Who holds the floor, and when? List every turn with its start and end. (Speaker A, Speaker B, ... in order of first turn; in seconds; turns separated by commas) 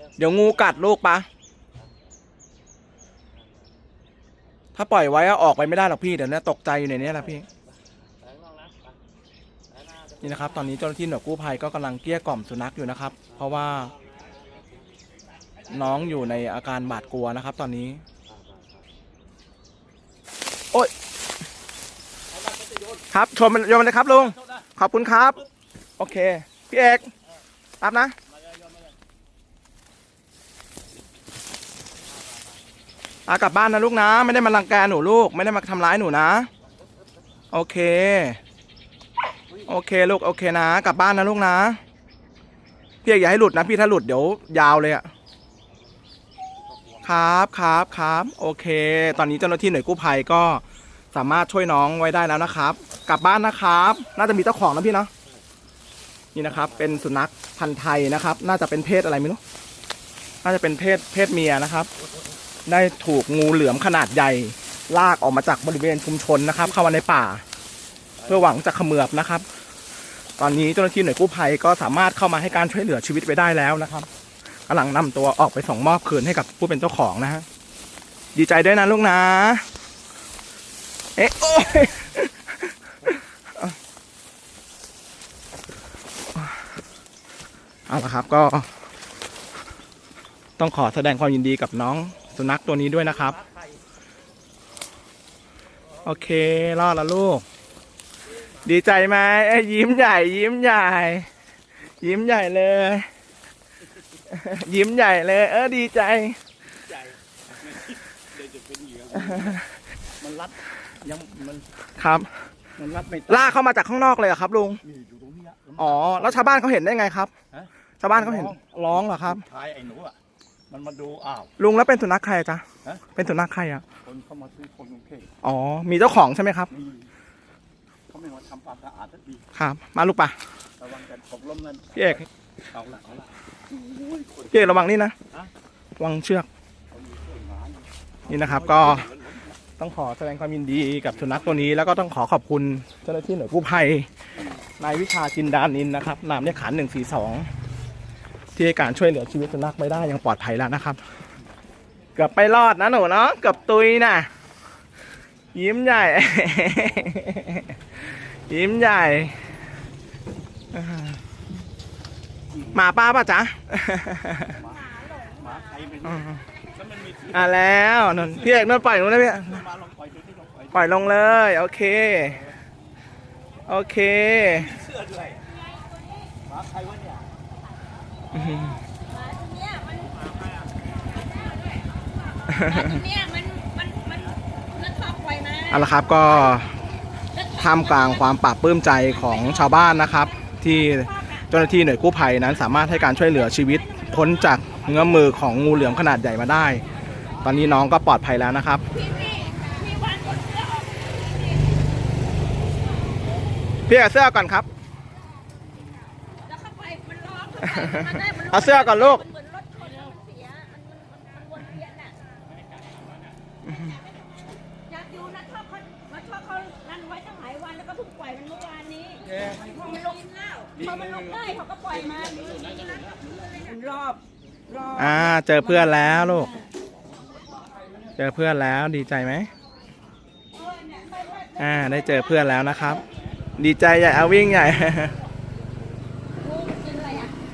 Speaker A: 0.2-1.3, Speaker A: 4.8-7.5, Speaker B: 8.3-8.7, Speaker A: 10.2-13.9, Speaker A: 15.7-18.0, Speaker A: 23.1-25.4, Speaker A: 26.0-27.1, Speaker A: 27.8-28.2, Speaker A: 33.3-36.5, Speaker A: 37.5-38.4, Speaker A: 39.6-41.8, Speaker A: 43.0-45.1, Speaker A: 47.0-55.1, Speaker A: 56.4-59.4, Speaker A: 60.4-61.9, Speaker A: 62.7-67.4, Speaker A: 68.3-69.5, Speaker A: 70.4-74.1, Speaker A: 74.7-77.5, Speaker A: 78.3-79.7, Speaker A: 81.2-82.4, Speaker A: 87.9-88.7, Speaker A: 90.6-93.4, Speaker A: 96.0-97.5, Speaker A: 98.6-101.3, Speaker A: 102.0-103.1, Speaker A: 104.3-106.4, Speaker B: 106.9-109.5, Speaker A: 109.3-109.6, Speaker B: 110.2-111.7, Speaker A: 112.0-112.5, Speaker B: 112.8-113.3, Speaker A: 113.3-114.8, Speaker B: 114.9-115.8, Speaker A: 115.8-117.3, Speaker A: 118.0-119.5, Speaker B: 119.4-120.2, Speaker B: 120.7-121.5, Speaker A: 121.6-122.6, Speaker A: 123.2-123.8, Speaker B: 124.0-125.3, Speaker A: 125.4-126.7, Speaker B: 126.8-127.0, Speaker B: 128.1-129.4, Speaker A: 129.5-130.4, Speaker B: 130.8-132.0, Speaker A: 132.0-132.3, Speaker B: 132.7-133.3, Speaker A: 134.5-135.2, Speaker A: 136.0-136.5, Speaker B: 136.9-139.4, Speaker A: 138.3-139.1, Speaker A: 139.8-144.1, Speaker A: 144.8-147.5, Speaker A: 148.6-151.0, Speaker A: 152.2-154.3, Speaker A: 155.5-157.8, Speaker A: 158.5-159.4, Speaker A: 160.7-161.2, Speaker A: 162.7-164.6, Speaker C: 164.6-165.9, Speaker B: 165.7-166.0, Speaker A: 166.0-166.4, Speaker B: 166.8-167.3, Speaker A: 167.3-169.7, Speaker B: 169.6-170.8, Speaker A: 170.7-172.5, Speaker A: 173.7-174.8, Speaker C: 175.4-176.3, Speaker B: 176.5-177.2, Speaker A: 178.3-178.8, Speaker C: 178.9-180.5, Speaker C: 181.1-181.9, Speaker A: 182.5-183.0, Speaker C: 182.6-185.9, Speaker A: 185.7-186.8, Speaker C: 187.3-188.2, Speaker A: 187.6-198.9, Speaker C: 189.4-191.5, Speaker C: 193.6-194.9, Speaker C: 198.9-201.8, Speaker A: 203.9-204.7, Speaker C: 206.4-212.2, Speaker A: 207.8-209.3, Speaker A: 213.7-214.0, Speaker C: 214.9-225.4, Speaker A: 225.0-226.5, Speaker C: 225.9-226.6, Speaker A: 228.2-229.5, Speaker C: 230.6-231.6, Speaker A: 231.6-233.0, Speaker A: 233.6-235.2, Speaker C: 236.4-237.4